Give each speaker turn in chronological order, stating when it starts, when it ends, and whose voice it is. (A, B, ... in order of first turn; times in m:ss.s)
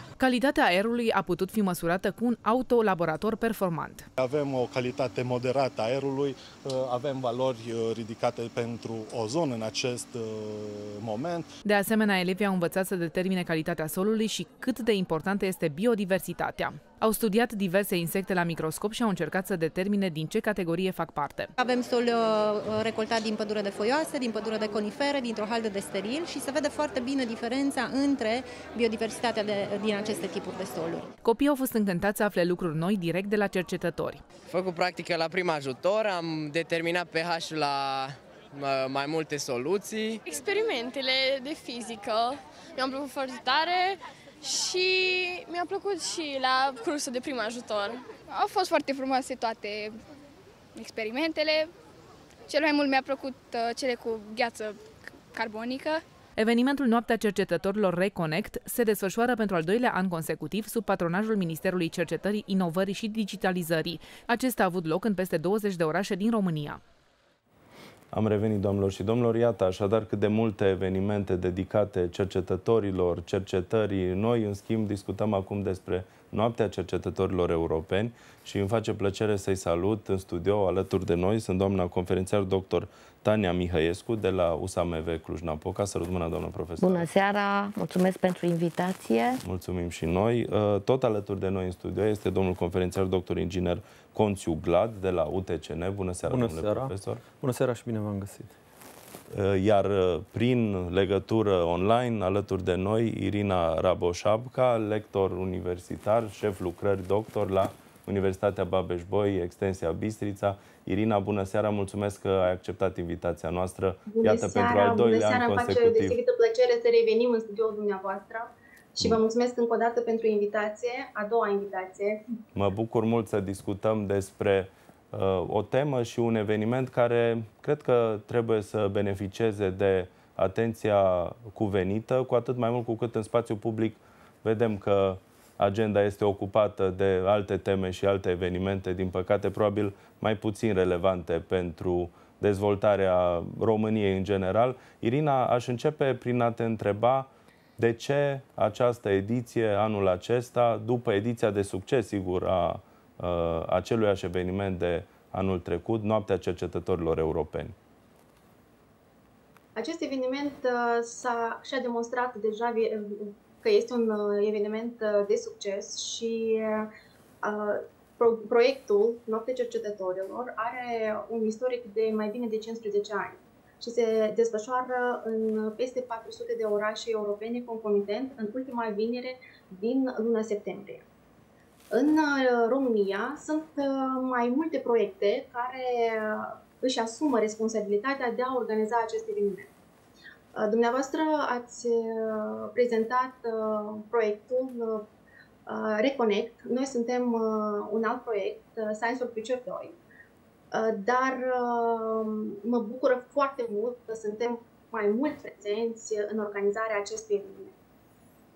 0:00.2-0:04.1 A
0:04.2-0:11.5 B
0:11.6-0:21.5 A
0:21.6-0:31.0 C
0:31.2-0:34.2 A
0:34.5-0:40.2 D
0:40.2-0:50.0 E
0:50.7-0:51.7 E
0:52.5-0:54.8 E
0:55.3-0:56.0 E
0:56.4-1:06.8 A
1:08.1-1:27.0 F
1:26.8-1:29.4 G
1:29.4-1:37.2 F
1:36.3-1:38.5 H
1:39.3-1:56.2 F
1:54.1-2:02.2 I
2:02.5-2:37.7 F
2:39.7-2:46.9 I
2:47.4-3:01.0 I
3:01.9-3:09.7 I
3:10.5-3:15.1 I
3:15.6-3:20.0 I
3:20.7-3:27.7 I